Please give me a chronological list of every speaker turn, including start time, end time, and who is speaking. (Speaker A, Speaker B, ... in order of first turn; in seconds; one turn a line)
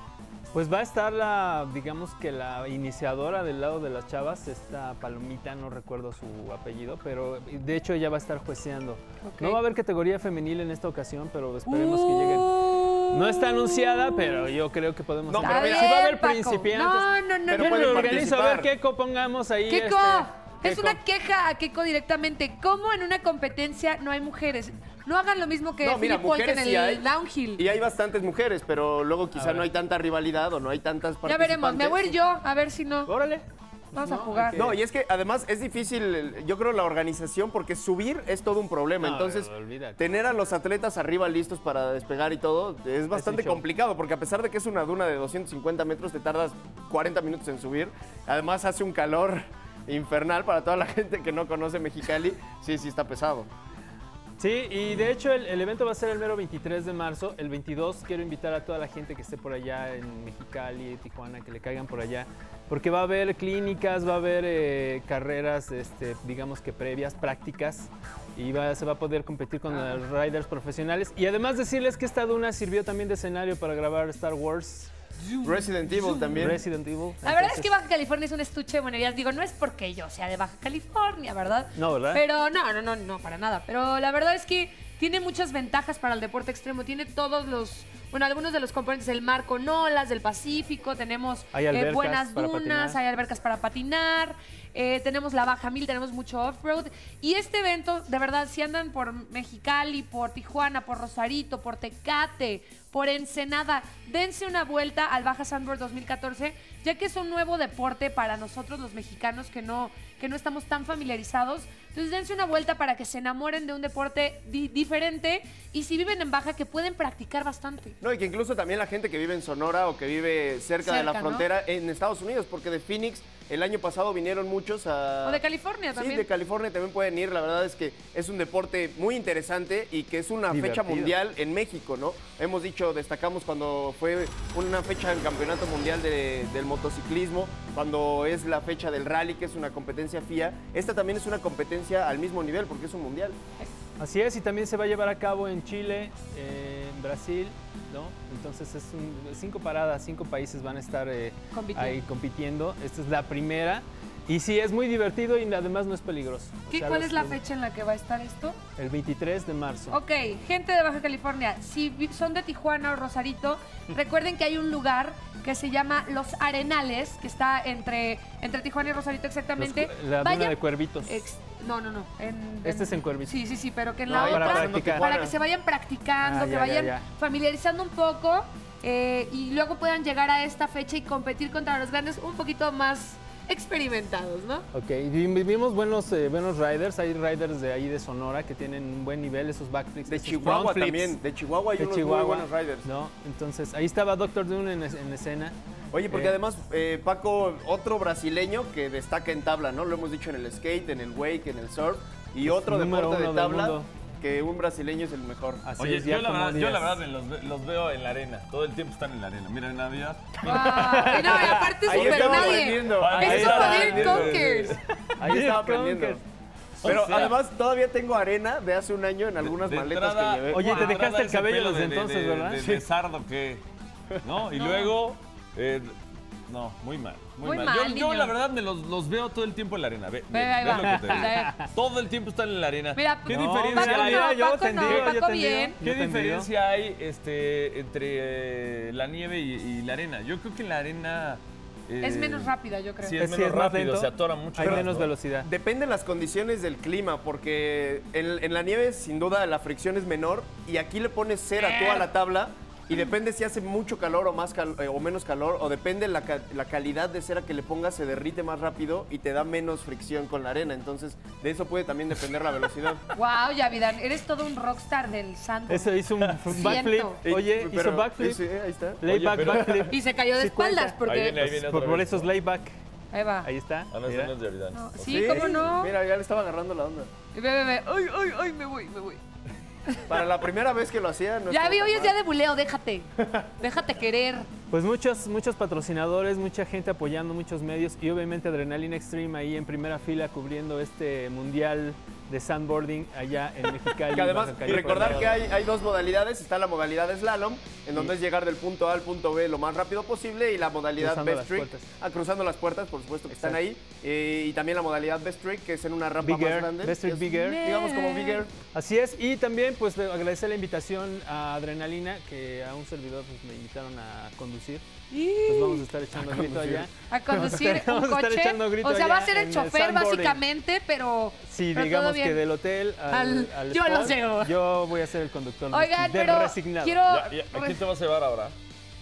Speaker A: 0.5-12.5
Speaker B: 9.2-9.6
Speaker B: 11.7-14.5
Speaker A: 13.1-21.0
Speaker C: 15.3-16.0
Speaker B: 15.4-18.2
Speaker C: 17.5-18.7
Speaker B: 19.7-27.6
Speaker C: 25.8-27.1
Speaker C: 27.6-32.1
Speaker A: 29.3-29.7
Speaker B: 31.2-33.1
Speaker A: 33.1-34.8
Speaker B: 33.9-34.7
Speaker C: 34.5-53.5
Speaker A: 39.0-40.0
Speaker A: 43.1-43.6
Speaker A: 54.4-74.9
Speaker B: 75.3-76.4
Speaker C: 75.4-76.6
Speaker A: 76.3-77.7
Speaker B: 77.2-118.0
Speaker A: 81.8-82.2
Speaker A: 91.5-93.0
Speaker C: 118.0-143.4
Speaker B: 120.8-121.5
Speaker B: 125.2-126.3
Speaker A: 130.5-131.2
Speaker A: 144.0-157.4
Speaker B: 151.5-152.0
Speaker B: 156.7-158.6
Speaker A: 158.8-160.0
Speaker B: 159.9-184.7
Speaker A: 169.6-171.2
Speaker A: 172.6-173.4
Speaker C: 174.1-175.4
Speaker A: 174.1-175.1
Speaker A: 176.2-177.1
Speaker A: 184.7-191.2
Speaker C: 190.1-192.9
Speaker A: 191.8-195.6
Speaker C: 195.9-205.7
Speaker A: 196.1-196.4
Speaker A: 202.4-203.9
Speaker A: 205.6-207.0
Speaker D: 205.8-211.0
Speaker B: 210.4-214.8
Speaker A: 210.4-211.8
Speaker D: 211.8-214.8
Speaker C: 211.8-214.4
Speaker A: 213.2-216.2
Speaker C: 215.2-216.2
Speaker A: 216.8-217.3
Speaker D: 216.8-217.4
Speaker C: 216.8-221.0
Speaker D: 219.4-223.6
Speaker A: 220.5-222.8
Speaker D: 224.2-225.9
Speaker B: 224.5-224.9
Speaker D: 226.5-235.2
Speaker B: 227.4-228.3
Speaker B: 230.3-231.6
Speaker A: 230.8-231.7
Speaker B: 232.9-235.8
Speaker A: 233.3-236.5
Speaker D: 235.8-245.1
Speaker B: 242.0-243.2
Speaker A: 243.2-245.5
Speaker C: 244.6-244.9
Speaker C: 245.4-263.0
Speaker B: 251.6-252.1
Speaker B: 263.1-265.9
Speaker A: 265.7-268.4
Speaker D: 266.2-266.5
Speaker B: 266.5-267.2
Speaker C: 267.2-269.8
Speaker A: 269.0-272.8
Speaker D: 269.0-269.9
Speaker B: 269.9-271.4
Speaker D: 271.0-272.3
Speaker B: 273.1-273.5
Speaker A: 273.4-274.3
Speaker D: 273.9-275.9
Speaker B: 274.7-275.9
Speaker C: 275.0-277.1
Speaker B: 277.3-279.2
Speaker C: 280.1-282.2
Speaker B: 281.5-284.5
Speaker C: 283.2-283.5
Speaker A: 284.7-295.4
Speaker C: 294.1-308.5
Speaker D: 294.6-295.4
Speaker A: 301.0-301.9
Speaker A: 303.3-303.6
Speaker A: 306.2-307.6
Speaker B: 307.3-308.5
Speaker A: 308.7-314.8
Speaker B: 315.1-315.8
Speaker A: 315.4-320.4
Speaker C: 316.2-316.9
Speaker B: 317.1-322.4
Speaker A: 321.5-327.0
Speaker B: 323.1-324.5
Speaker B: 325.7-327.8
Speaker D: 327.1-328.6